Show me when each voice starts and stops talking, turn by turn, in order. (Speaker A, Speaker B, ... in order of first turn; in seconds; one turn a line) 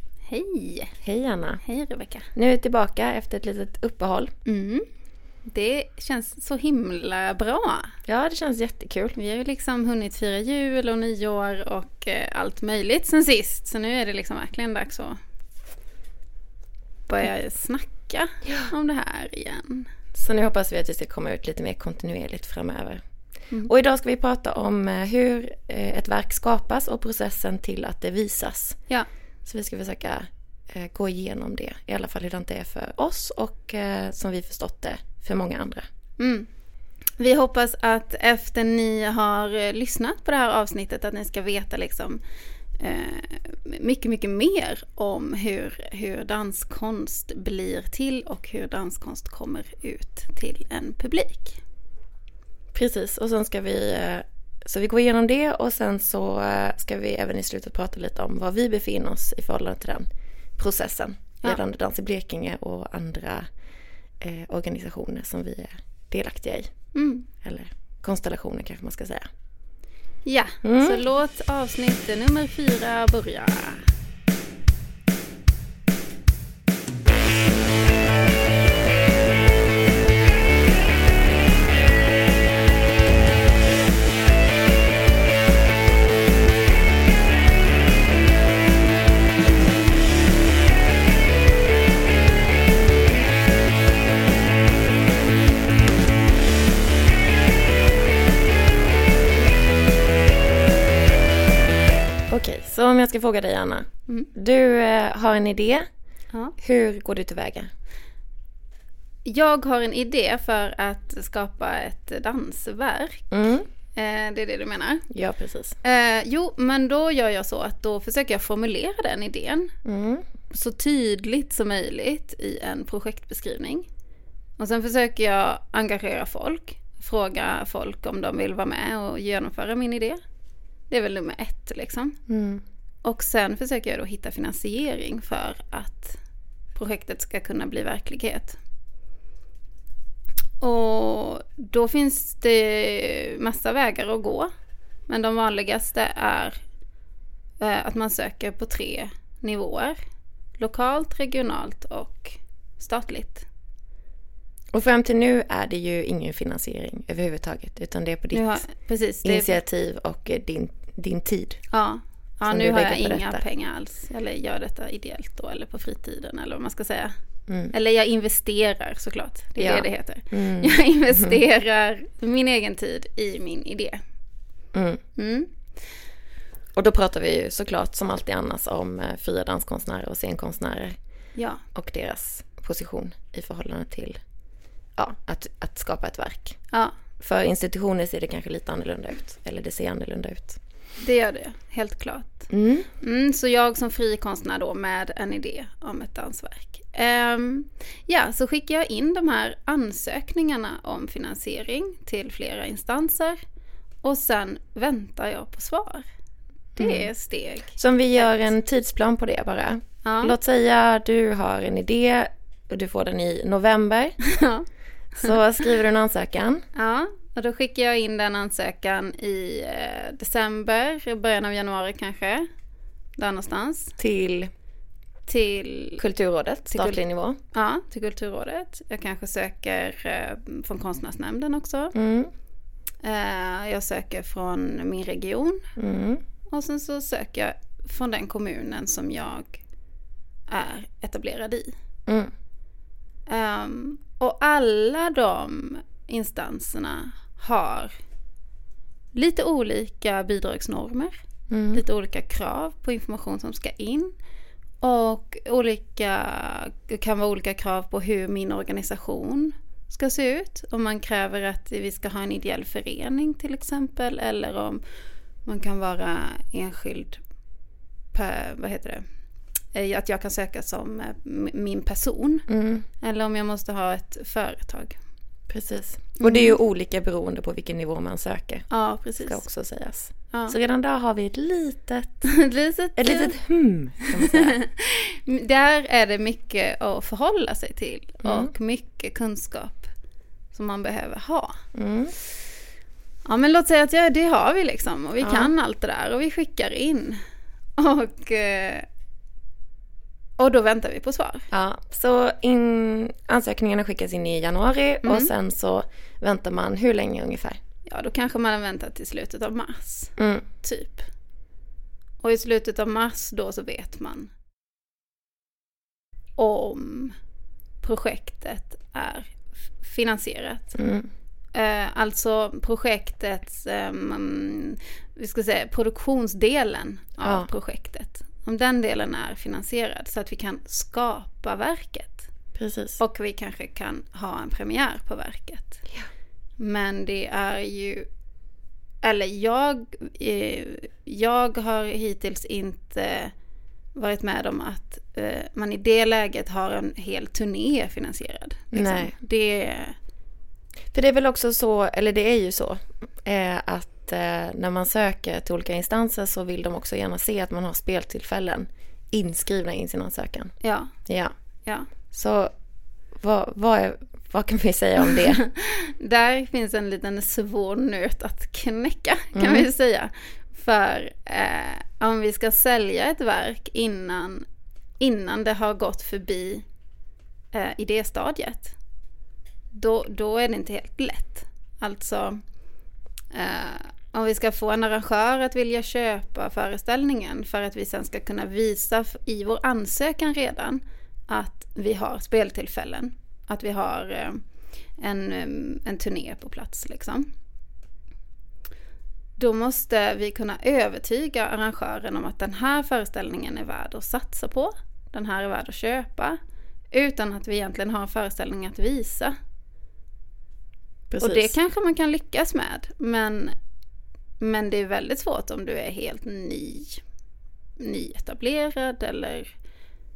Speaker A: 0.3-0.9
Speaker B: 1.0-1.6
Speaker A: 1.6-2.3
Speaker B: 2.3-4.3
Speaker A: 4.5-4.8
Speaker A: 5.5-7.9
Speaker B: 8.1-9.2
Speaker A: 9.2-15.2
Speaker A: 17.1-19.9
Speaker B: 20.1-23.0
Speaker B: 23.6-28.8
Speaker B: 29.4-35.8
Speaker A: 36.2-36.5
Speaker A: 37.2-42.2
Speaker A: 42.8-51.6
Speaker B: 52.7-60.1
Speaker B: 60.6-63.5
Speaker B: 64.2-66.7
Speaker A: 66.9-67.3
Speaker B: 67.4-69.3
Speaker A: 70.2-73.9
Speaker B: 70.6-71.0
Speaker B: 102.3-105.9
Speaker B: 106.6-107.7
Speaker A: 109.2-113.2
Speaker B: 113.3-113.7
Speaker A: 113.9-115.0
Speaker B: 115.1-115.8
Speaker A: 115.8-119.7
Speaker B: 119.8-120.2
Speaker A: 120.5-123.9
Speaker A: 124.6-130.2
Speaker A: 130.9-132.2
Speaker B: 132.3-132.6
Speaker A: 133.0-136.2
Speaker A: 136.7-138.6
Speaker A: 140.6-144.5
Speaker A: 145.1-146.6
Speaker A: 147.6-150.0
Speaker A: 150.6-153.4
Speaker B: 154.7-158.6
Speaker A: 158.3-159.5
Speaker B: 159.2-161.6
Speaker A: 161.7-167.1
Speaker B: 162.5-163.4
Speaker B: 167.5-167.7
Speaker A: 167.7-174.0
Speaker B: 169.6-171.4
Speaker B: 174.7-175.0
Speaker A: 175.2-175.5
Speaker B: 176.8-180.9
Speaker A: 181.3-181.6
Speaker B: 181.7-184.2
Speaker B: 185.0-186.6
Speaker B: 187.2-190.6
Speaker A: 191.0-192.5
Speaker B: 192.5-192.9
Speaker A: 193.0-203.4
Speaker A: 204.0-206.0
Speaker B: 206.8-207.1
Speaker A: 206.8-208.5
Speaker B: 207.7-214.2
Speaker A: 210.0-210.3
Speaker A: 214.2-215.6
Speaker B: 215.2-216.6
Speaker A: 216.7-222.4
Speaker A: 223.2-223.9
Speaker B: 224.0-224.5
Speaker A: 225.3-226.0
Speaker B: 226.0-227.4
Speaker A: 226.7-227.0
Speaker A: 227.5-231.9
Speaker B: 231.9-232.3
Speaker A: 233.0-235.7
Speaker B: 235.8-236.2
Speaker A: 236.5-239.6
Speaker A: 240.5-241.7
Speaker A: 243.3-247.9
Speaker A: 249.1-251.2
Speaker B: 251.5-251.8
Speaker A: 251.7-254.1
Speaker A: 254.8-264.8
Speaker A: 265.4-267.2
Speaker A: 268.1-269.0
Speaker A: 269.7-272.5
Speaker B: 272.5-272.8
Speaker A: 273.0-274.9
Speaker B: 275.5-278.6
Speaker A: 276.2-276.5
Speaker A: 278.7-279.4
Speaker B: 279.2-282.2
Speaker A: 282.2-283.4
Speaker B: 283.0-284.6
Speaker A: 284.1-289.9
Speaker B: 288.2-288.5
Speaker A: 290.5-291.6
Speaker B: 291.7-292.1
Speaker A: 293.2-297.2
Speaker B: 295.2-295.5
Speaker A: 297.8-298.9
Speaker A: 300.4-301.5
Speaker B: 301.5-307.6
Speaker A: 305.0-305.3
Speaker A: 307.9-311.1
Speaker B: 310.2-310.4
Speaker A: 312.2-314.3
Speaker A: 316.4-317.1
Speaker A: 317.8-320.8
Speaker B: 320.8-321.1
Speaker A: 321.5-332.3
Speaker B: 327.2-327.5
Speaker B: 332.6-333.0
Speaker A: 333.0-335.8
Speaker A: 336.6-338.1
Speaker A: 339.0-343.3
Speaker A: 343.9-349.9
Speaker B: 348.7-349.1
Speaker B: 350.9-360.5
Speaker A: 360.6-360.9
Speaker B: 361.1-361.3
Speaker B: 362.1-362.5
Speaker B: 363.2-365.4
Speaker A: 365.2-374.4
Speaker B: 369.3-369.7
Speaker A: 375.0-376.6
Speaker A: 377.5-378.7
Speaker A: 379.7-382.4
Speaker A: 383.3-394.4
Speaker A: 395.0-397.3
Speaker A: 399.4-406.4
Speaker A: 406.9-409.3
Speaker B: 411.1-411.5
Speaker A: 411.2-413.5
Speaker A: 414.4-417.0
Speaker A: 417.8-419.5